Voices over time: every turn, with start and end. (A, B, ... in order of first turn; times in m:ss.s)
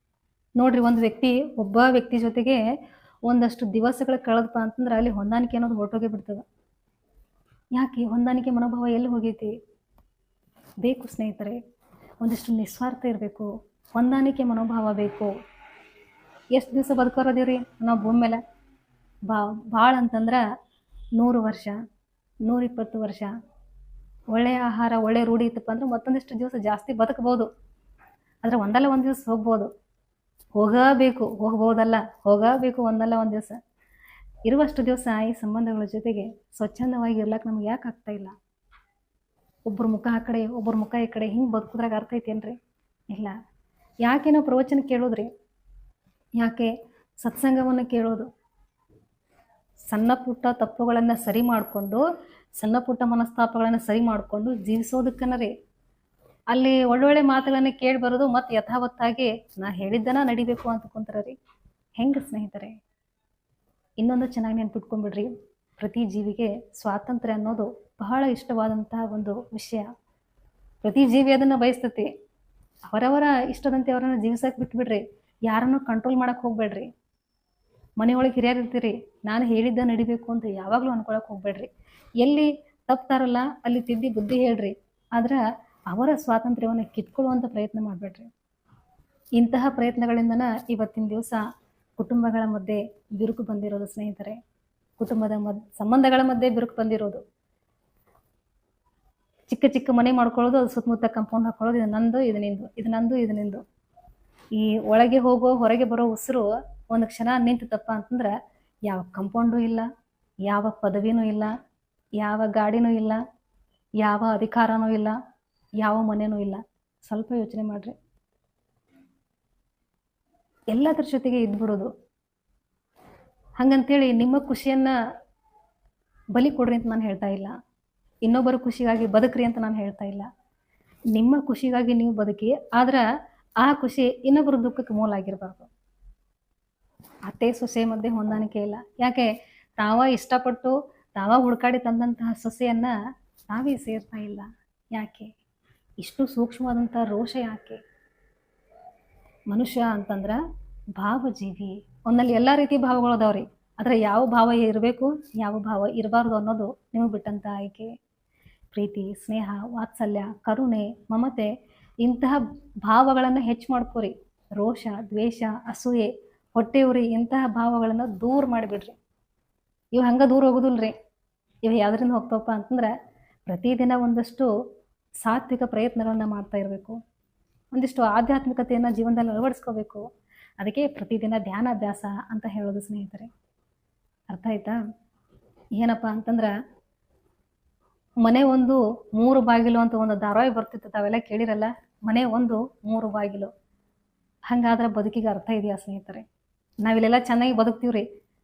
0:00.6-0:02.6 A
0:03.2-0:06.4 A
0:07.7-0:09.5 A
0:10.8-0:11.6 A
0:12.2-0:15.3 A
0:16.5-0:18.4 A
0:19.2-0:20.4 A
0:21.2-0:21.8 A
0:22.4-0:23.3 A
0:24.3-0:27.5 A
0:28.4-0:29.7 A
0:30.6-0:33.6 A
0:34.5-0:38.3 A
0:39.6-0:42.6 A
0:43.1-0:43.4 A
0:44.0-0:45.3 A
0:46.4-0:48.3 A
0:49.9-0:52.0 A
0:52.6-0:55.5 A
0:56.5-1:01.4 A
1:02.0-1:02.7 A
1:04.0-1:09.9 A
1:10.8-1:12.1 A
1:12.9-1:16.9 A
1:18.0-1:21.7 A
1:22.2-1:28.3 A
1:29.4-1:31.4 A
1:32.0-1:34.4 A
1:35.0-1:37.2 A
1:39.5-1:43.6 A
1:44.5-1:48.3 A
1:48.9-1:49.9 A
1:50.4-1:51.5 A
1:52.2-1:53.2 A
1:54.0-1:55.2 A
1:55.8-1:57.9 A
2:00.7-2:01.9 A
2:03.6-2:04.9 A
2:06.3-2:07.5 A
2:08.2-2:10.3 A
2:11.1-2:13.0 A
2:13.6-2:15.7 A
2:17.3-2:22.9 A
2:23.5-2:25.3 A
2:26.0-2:27.8 A
2:29.5-2:30.4 A
2:30.9-2:37.9 A
2:38.7-2:41.5 A
2:42.0-2:49.0 A
2:49.9-2:50.9 A
2:51.6-2:52.9 A
2:53.5-2:54.5 A
2:55.2-2:57.0 A
2:57.7-3:00.0 A
3:00.6-3:03.3 A
3:04.3-3:04.8 A
3:05.8-3:06.5 A
3:08.2-3:13.5 A
3:14.5-3:16.2 A
3:16.8-3:18.0 A